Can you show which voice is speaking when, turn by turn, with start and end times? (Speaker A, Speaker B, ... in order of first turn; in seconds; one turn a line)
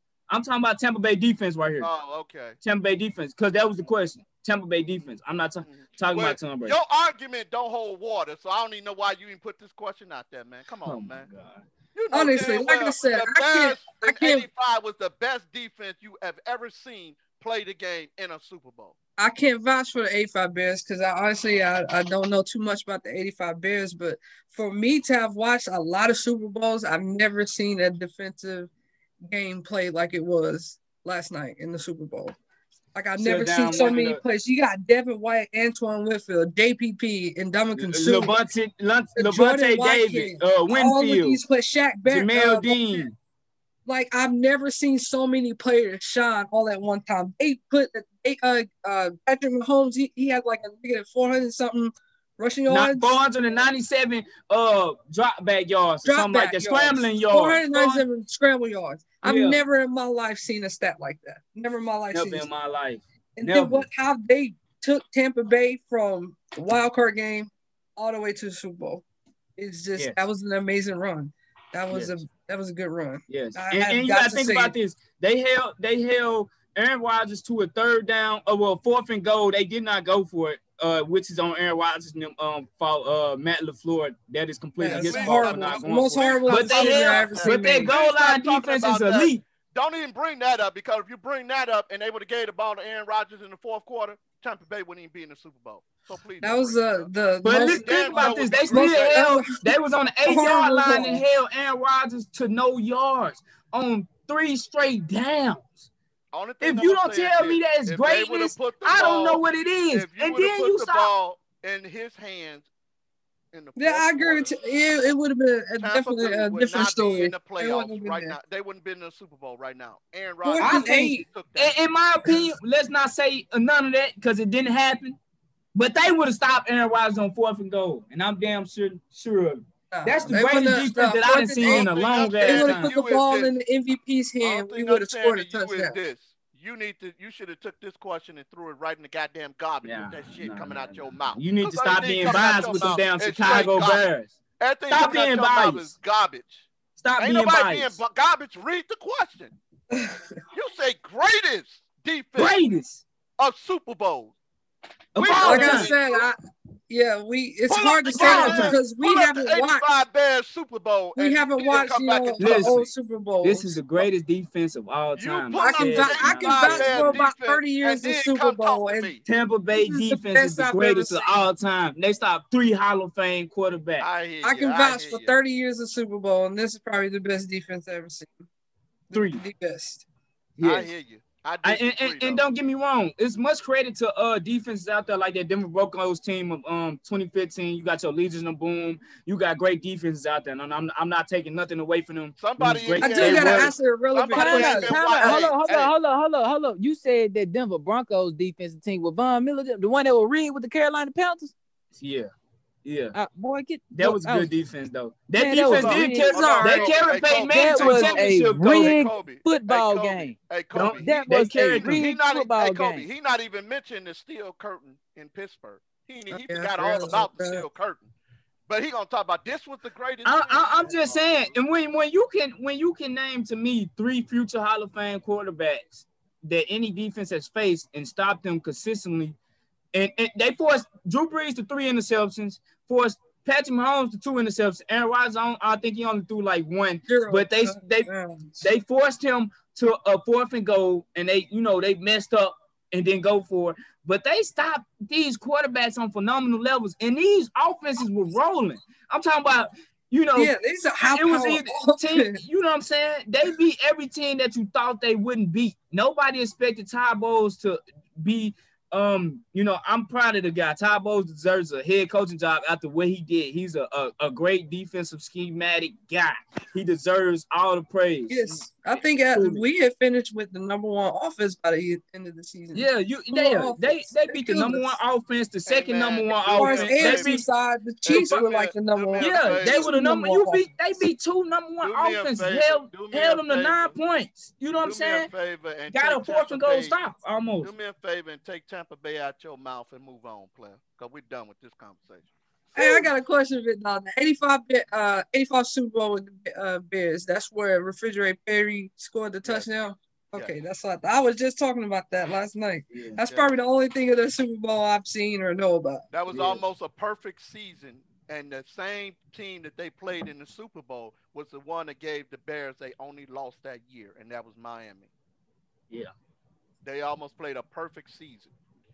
Speaker A: 0.3-1.9
Speaker B: 1.8-2.6
Speaker A: 2.6-6.8
Speaker B: 5.6-11.3
Speaker A: 10.8-11.7
Speaker B: 11.9-18.9
Speaker C: 12.1-14.5
Speaker C: 19.2-28.7
Speaker C: 29.3-32.4
Speaker C: 32.9-38.4
Speaker A: 33.2-34.2
Speaker A: 37.8-41.4
Speaker C: 39.1-43.1
Speaker A: 42.0-43.1
Speaker C: 43.9-53.2
Speaker A: 52.7-58.0
Speaker C: 56.0-62.5
Speaker A: 59.2-59.6
Speaker A: 62.1-63.9
Speaker C: 63.4-69.0
Speaker C: 69.6-74.8
Speaker A: 71.9-72.2
Speaker A: 73.3-89.4
Speaker C: 84.8-88.0
Speaker B: 84.9-99.2
Speaker C: 96.4-99.7
Speaker A: 97.4-105.9
Speaker C: 100.2-101.3
Speaker B: 106.3-112.7
Speaker A: 106.6-111.1
Speaker B: 113.5-114.5
Speaker C: 113.8-118.4
Speaker B: 115.8-121.8
Speaker C: 120.5-121.3
Speaker A: 120.6-125.2
Speaker C: 122.2-122.5
Speaker A: 125.8-132.9
Speaker C: 129.9-136.0
Speaker B: 131.6-133.5
Speaker B: 134.4-144.1
Speaker A: 139.8-144.3
Speaker B: 144.6-146.7
Speaker A: 144.9-145.9
Speaker A: 147.0-148.0
Speaker B: 147.2-149.6
Speaker C: 149.9-150.2
Speaker B: 150.5-152.6
Speaker A: 152.4-153.0
Speaker B: 153.4-154.3
Speaker A: 155.2-155.9
Speaker B: 155.2-156.3
Speaker C: 155.4-156.4
Speaker C: 156.9-159.9
Speaker B: 157.7-162.9
Speaker A: 158.1-158.8
Speaker C: 161.2-163.8
Speaker A: 162.4-162.9
Speaker A: 163.4-167.2
Speaker B: 165.2-169.2
Speaker C: 165.6-169.1
Speaker A: 169.3-174.1
Speaker C: 169.7-171.3
Speaker B: 174.0-175.3
Speaker C: 174.4-178.5
Speaker C: 179.1-180.1
Speaker A: 179.1-179.4
Speaker A: 180.6-180.9
Speaker B: 180.6-182.4
Speaker A: 181.6-193.8
Speaker B: 192.4-195.9
Speaker C: 193.0-195.0
Speaker D: 194.3-201.5
Speaker A: 201.9-202.3
Speaker A: 202.8-203.2
Speaker D: 203.1-204.5
Speaker A: 203.9-208.9
Speaker D: 205.4-206.3
Speaker C: 205.7-206.9
Speaker B: 206.2-218.1
Speaker D: 207.5-210.3
Speaker A: 210.7-212.1
Speaker D: 210.9-213.1
Speaker C: 216.3-217.7
Speaker B: 218.7-221.4
Speaker A: 220.2-229.4
Speaker A: 229.9-238.1
Speaker C: 237.1-238.6
Speaker A: 238.6-268.6
Speaker C: 250.3-252.4
Speaker C: 268.3-275.0
Speaker A: 269.2-269.6
Speaker A: 272.7-277.4
Speaker B: 275.7-277.4
Speaker C: 276.6-280.7
Speaker B: 278.0-279.9
Speaker A: 279.2-285.3
Speaker B: 281.8-284.0
Speaker B: 284.8-287.0
Speaker A: 285.9-287.7
Speaker B: 287.6-293.1
Speaker C: 292.8-306.1
Speaker B: 299.4-299.7
Speaker A: 302.9-303.2
Speaker B: 303.3-303.5
Speaker B: 306.1-315.1
Speaker A: 306.3-306.6
Speaker B: 316.8-318.5